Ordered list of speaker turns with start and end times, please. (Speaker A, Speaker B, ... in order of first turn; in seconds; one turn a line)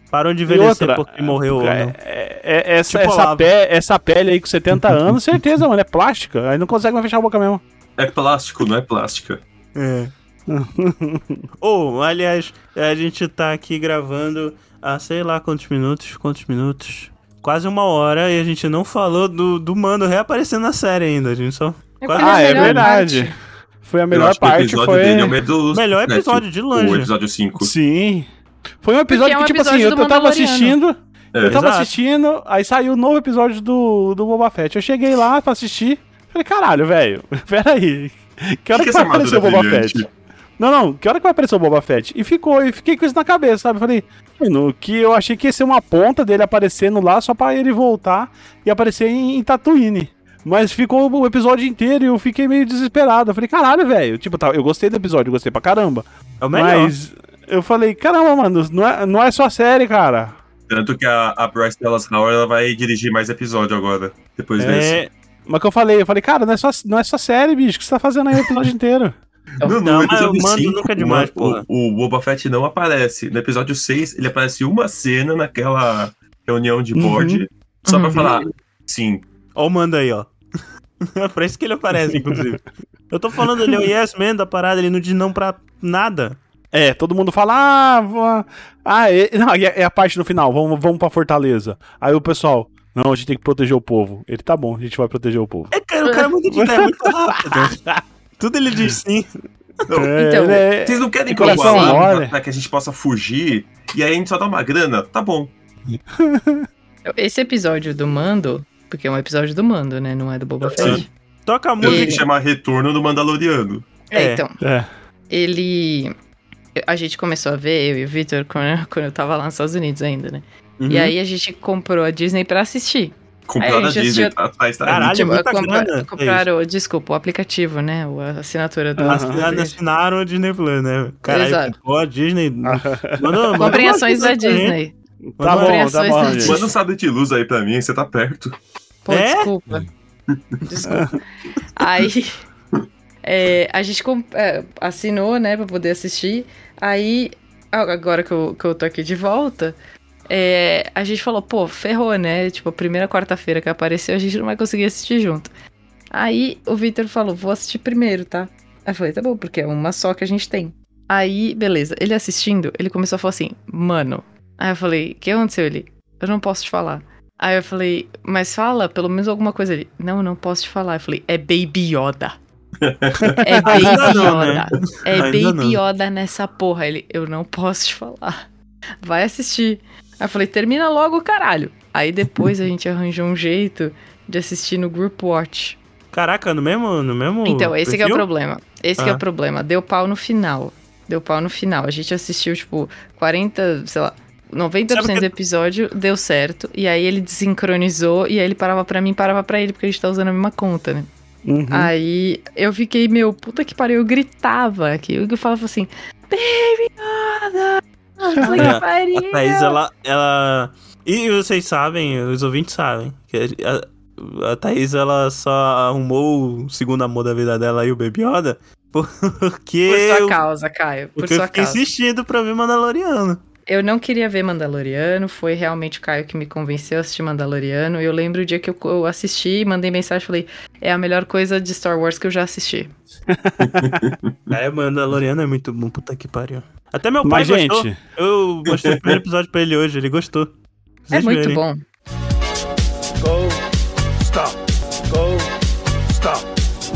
Speaker A: 0.1-1.9
Speaker B: 0.5-7.6
Speaker A: 2.9-3.5
Speaker C: 8.0-9.4
Speaker A: 9.7-10.1
Speaker B: 10.5-11.4
Speaker A: 11.6-22.9
Speaker D: 22.0-23.4
Speaker B: 22.2-25.4
Speaker C: 24.1-27.7
Speaker A: 25.7-27.1
Speaker B: 27.6-28.3
Speaker B: 28.8-60.4
Speaker D: 29.1-30.8
Speaker C: 31.3-31.6
Speaker A: 31.4-31.9
Speaker C: 38.7-40.1
Speaker A: 56.4-56.9
Speaker C: 60.7-65.0
Speaker B: 64.6-64.9
Speaker A: 64.6-65.1
Speaker B: 65.5-69.2
Speaker C: 69.6-79.2
Speaker A: 69.8-71.6
Speaker B: 76.9-77.4
Speaker D: 77.8-78.3
Speaker A: 79.5-80.3
Speaker A: 81.0-86.4
Speaker B: 82.1-82.4
Speaker B: 86.7-95.7
Speaker A: 95.7-97.8
Speaker B: 96.5-98.0
Speaker A: 98.4-99.3
Speaker C: 99.9-100.1
Speaker B: 99.9-102.3
Speaker D: 100.2-100.7
Speaker C: 100.7-105.5
Speaker D: 101.4-102.0
Speaker B: 106.2-106.7
Speaker D: 107.0-111.1
Speaker C: 110.6-111.0
Speaker A: 110.8-112.2
Speaker D: 111.8-112.2
Speaker C: 111.8-113.8
Speaker D: 114.1-114.6
Speaker A: 114.1-114.4
Speaker B: 114.6-114.9
Speaker D: 115.3-116.1
Speaker D: 116.8-124.3
Speaker A: 120.8-121.1
Speaker C: 123.5-125.3
Speaker A: 124.8-126.5
Speaker D: 124.9-129.8
Speaker B: 129.0-129.5
Speaker A: 129.0-134.8
Speaker D: 131.3-131.7
Speaker B: 132.6-133.8
Speaker D: 133.6-134.9
Speaker B: 135.4-136.7
Speaker A: 135.4-136.0
Speaker D: 135.4-136.7
Speaker C: 136.4-138.5
Speaker D: 139.1-139.8
Speaker A: 139.1-139.5
Speaker D: 140.7-141.2
Speaker B: 140.9-141.2
Speaker D: 141.7-142.4
Speaker D: 143.2-149.8
Speaker D: 150.3-155.5
Speaker D: 156.1-172.3
Speaker C: 172.8-174.3
Speaker B: 173.2-173.8
Speaker D: 173.4-178.3
Speaker A: 173.6-175.8
Speaker D: 179.0-185.8
Speaker A: 186.1-188.2
Speaker D: 187.4-201.1
Speaker A: 189.0-189.2
Speaker A: 194.9-195.3
Speaker B: 201.4-201.9
Speaker D: 201.7-209.8
Speaker B: 208.3-208.8
Speaker A: 208.4-220.4
Speaker D: 219.9-221.8
Speaker A: 221.2-223.4
Speaker D: 223.7-232.9
Speaker B: 233.3-234.1
Speaker C: 233.6-234.3
Speaker A: 234.5-240.5
Speaker B: 237.2-238.0
Speaker A: 241.1-241.6
Speaker D: 241.1-241.8
Speaker E: 243.2-243.6
Speaker E: 244.2-245.5
Speaker E: 246.1-246.4